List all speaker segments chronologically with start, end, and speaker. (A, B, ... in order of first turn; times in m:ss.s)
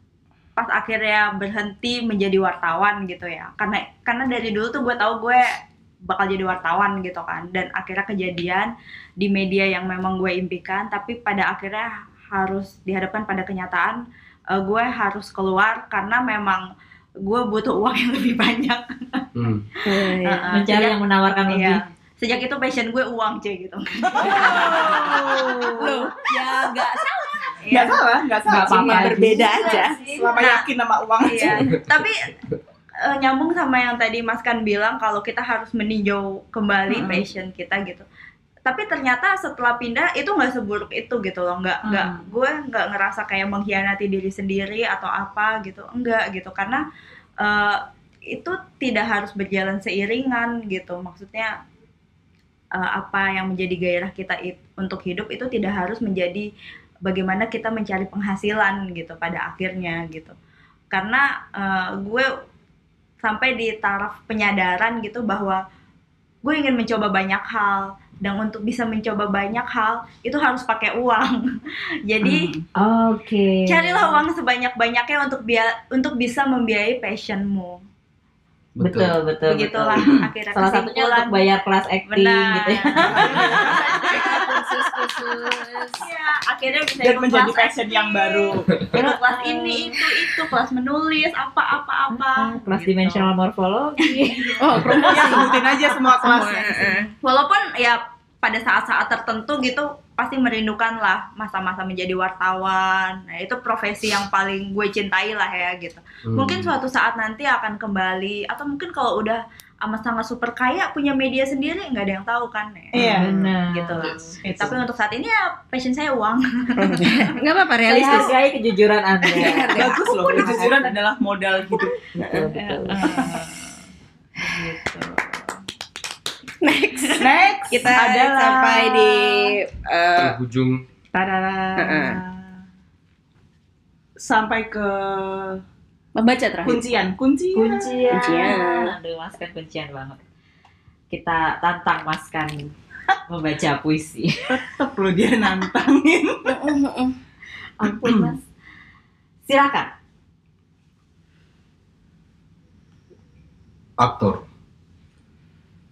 0:00.6-0:14.0 A
0:14.5-0:16.7 A
0:17.3-0:19.3 A
0:19.4-0:19.7 B
0:19.8-0:20.6 C
0:19.9-0:21.0 A
0:20.5-0:21.8 D
0:21.5-0:26.1 A
0:24.2-0:25.9 E
0:24.4-0:27.2 C
0:27.7-0:28.0 A
0:27.7-0:31.8 E
0:28.5-0:29.8 D
0:28.6-0:30.1 C
0:29.3-0:30.6 A
0:31.2-0:32.3 A
0:31.8-0:32.0 B
0:33.0-0:38.1 A
0:36.9-0:37.2 E
0:38.6-0:46.8 A
0:41.8-0:42.3 E
0:47.4-0:51.5 A
0:52.8-0:56.5 A
0:57.0-1:00.4 A
1:00.9-1:02.3 A
1:03.2-1:05.6 A
1:06.4-1:12.5 A
1:12.2-1:12.6 E
1:12.8-1:14.2 D
1:13.7-1:17.8 A
1:18.8-1:19.2 B
1:18.8-1:24.0 D
1:19.5-1:21.5 A
1:22.1-1:24.7 A
1:23.0-1:24.6 E
1:23.2-1:23.7 B
1:23.7-1:26.1 C
1:26.0-1:33.3 A
1:27.0-1:28.8 E
1:29.0-1:29.9 D
1:32.2-1:35.0 D
1:34.0-1:35.6 A
1:34.6-1:35.6 C
1:35.0-1:37.0 E
1:36.2-1:37.1 C
1:37.2-1:57.4 A
1:46.2-1:46.7 B
1:52.9-1:53.4 E
1:53.0-1:54.1 D
1:54.0-1:54.7 B
1:54.4-1:54.8 E
1:56.8-1:58.4 C
1:57.9-2:00.9 D
1:59.3-2:00.9 C
1:59.4-2:03.4 E
2:02.2-2:03.6 D
2:02.2-2:02.5 C
2:04.4-2:05.4 D
2:06.6-2:10.4 C
2:07.2-2:09.6 E
2:10.2-2:10.8 B
2:11.1-2:12.5 E
2:11.8-2:12.2 C
2:14.2-2:15.6 E
2:16.2-2:17.1 C
2:16.6-2:18.3 E
2:17.5-2:20.2 D
2:18.1-2:18.9 C
2:21.1-2:22.6 D
2:23.3-2:24.6 D
2:24.5-2:26.8 E
2:26.5-2:27.2 C
2:27.8-2:28.4 D
2:29.5-2:29.9 D
2:34.0-2:34.4 B